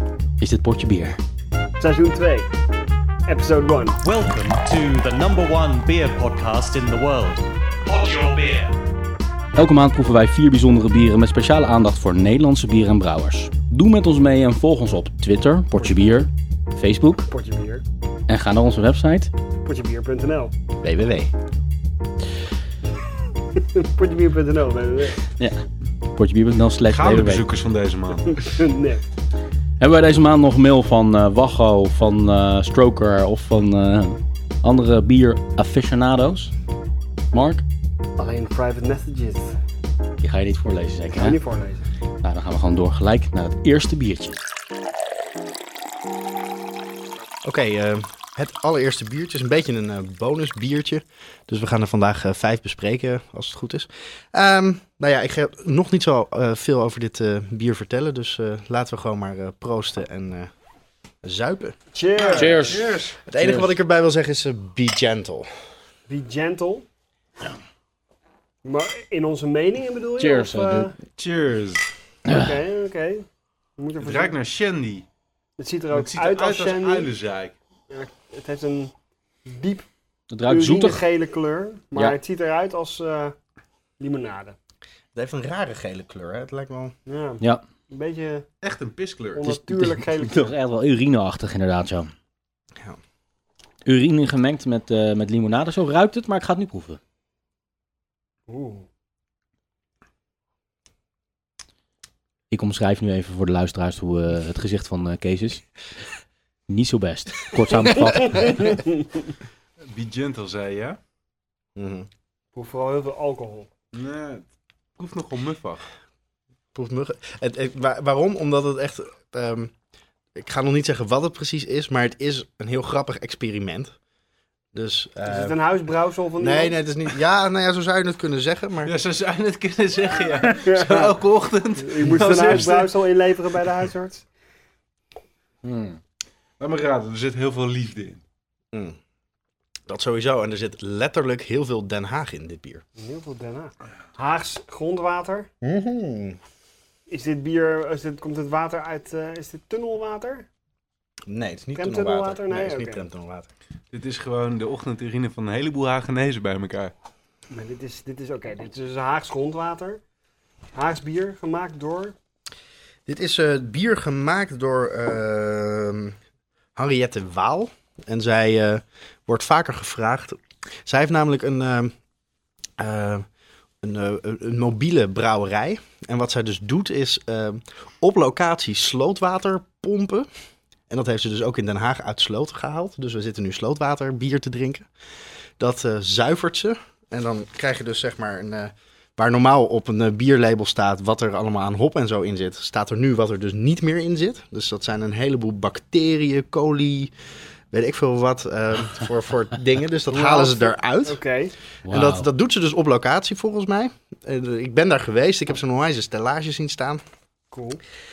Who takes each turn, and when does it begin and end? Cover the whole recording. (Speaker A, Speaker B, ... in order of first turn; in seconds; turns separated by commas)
Speaker A: 0.4-1.2, Speaker B: 1.8-2.5, Speaker B: 3.2-4.0, Speaker C: 4.0-8.7, Speaker A: 9.5-17.3, Speaker B: 17.3-17.8, Speaker A: 18.3-19.3, Speaker B: 19.6-20.5, Speaker A: 20.8-21.3, Speaker B: 23.6-25.2, Speaker A: 25.4-25.6, Speaker A: 26.1-27.4, Speaker D: 26.9-28.5, Speaker B: 28.3-29.0, Speaker A: 29.8-36.5, Speaker A: 37.3-37.6, Speaker B: 38.2-39.6, Speaker A: 40.2-41.4, Speaker B: 41.1-41.9, Speaker A: 42.2-44.4, Speaker E: 47.4-60.5, Speaker E: 61.2-61.8, Speaker B: 61.9-62.8, Speaker D: 62.2-63.2, Speaker A: 62.3-62.8, Speaker E: 63.3-65.5, Speaker A: 63.3-63.7, Speaker B: 66.1-66.8, Speaker B: 68.6-70.9, Speaker A: 70.2-70.9, Speaker D: 71.2-71.9, Speaker A: 72.2-72.5, Speaker B: 72.3-74.3, Speaker D: 74.0-75.0, Speaker B: 75.6-77.1, Speaker D: 75.9-77.5, Speaker B: 77.9-78.9, Speaker B: 79.5-79.9, Speaker A: 80.3-81.0, Speaker B: 80.5-83.3, Speaker B: 84.0-84.5, Speaker E: 85.1-86.9, Speaker B: 87.1-88.5, Speaker D: 88.6-89.4, Speaker B: 89.3-90.5, Speaker A: 89.4-92.1, Speaker A: 93.8-97.0, Speaker B: 98.5-98.8, Speaker A: 102.5-105.7, Speaker A: 106.7-108.6, Speaker B: 108.2-108.9, Speaker D: 109.9-111.0, Speaker E: 111.8-112.1, Speaker B: 112.5-113.7, Speaker D: 113.9-114.4, Speaker D: 115.0-115.9, Speaker E: 116.7-119.7, Speaker E: 120.3-124.0, Speaker E: 124.7-125.6, Speaker B: 125.3-126.7, Speaker E: 126.4-128.9, Speaker D: 128.8-132.9, Speaker B: 130.5-131.1, Speaker B: 131.8-134.2, Speaker A: 132.2-132.5, Speaker A: 135.6-136.0, Speaker D: 136.6-138.2, Speaker E: 139.9-142.8, Speaker B: 143.0-145.5, Speaker E: 145.6-146.4, Speaker B: 147.1-150.4, Speaker E: 151.3-153.5, Speaker B: 151.8-153.0, Speaker D: 153.9-156.9, Speaker B: 157.5-160.0, Speaker B: 160.7-162.1, Speaker E: 163.1-166.2, Speaker E: 166.8-171.9, Speaker E: 172.8-173.2, Speaker E: 173.8-180.3, Speaker E: 180.9-184.9, Speaker E: 185.6-197.1, Speaker E: 197.7-201.2, Speaker B: 200.1-201.5, Speaker A: 201.8-202.3, Speaker E: 201.8-207.0, Speaker B: 207.5-207.8